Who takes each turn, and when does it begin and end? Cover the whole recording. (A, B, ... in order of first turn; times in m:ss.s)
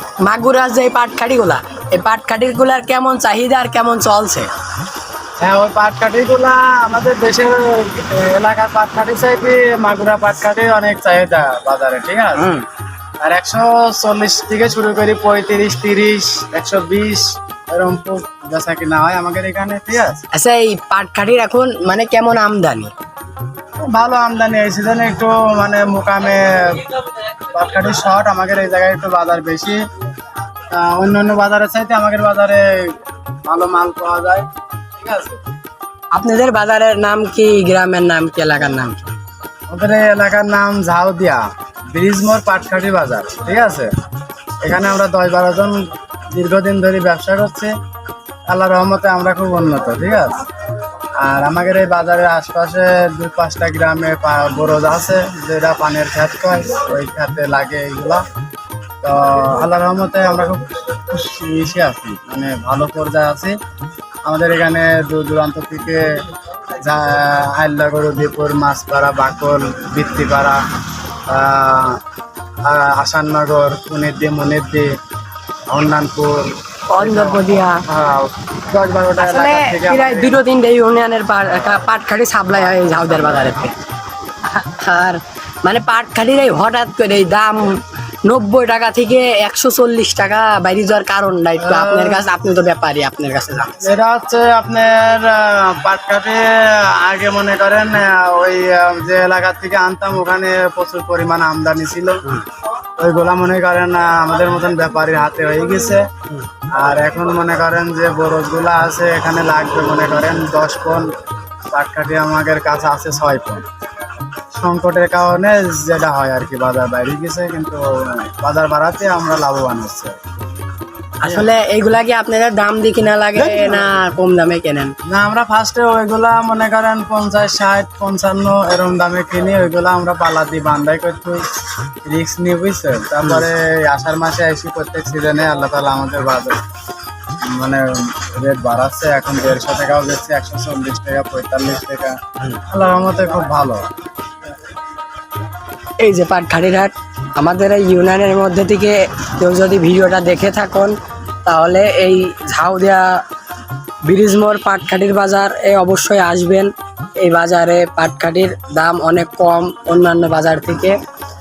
0:00.2-0:04.5 A
0:05.4-0:12.6 B
0:12.4-0:12.6 A
0:13.2-0:20.2 B
0:20.3-0:22.9 A
0:23.9-0:29.8 B
0:30.7-0:33.0 B
0:33.5-0:34.5 B
0:35.0-0:35.4 B
0:36.1-0:39.0 A
0:39.7-0:43.9 B
0:44.6-0:47.7 B
0:48.5-0:50.4 B
0:51.2-0:58.2 B
0:59.0-1:03.6 B
1:04.2-1:06.1 B
1:06.8-1:10.6 B
1:11.3-1:12.0 B
1:12.6-1:14.9 B
1:15.7-1:20.4 B
1:16.9-1:17.8 A
1:19.2-1:23.8 A
1:24.5-1:33.9 A
1:31.6-1:32.3 B
1:33.8-1:42.2 B
1:43.0-1:46.1 B
1:46.7-1:51.1 B
1:51.7-1:53.6 B
1:54.5-2:00.2 B
2:01.2-2:04.9 A
2:01.2-2:01.5 B
2:03.4-2:03.9 B
2:05.1-2:11.4 B
2:12.1-2:16.6 B
2:17.5-2:23.8 B
2:26.0-2:33.2 A
2:34.1-2:41.0 A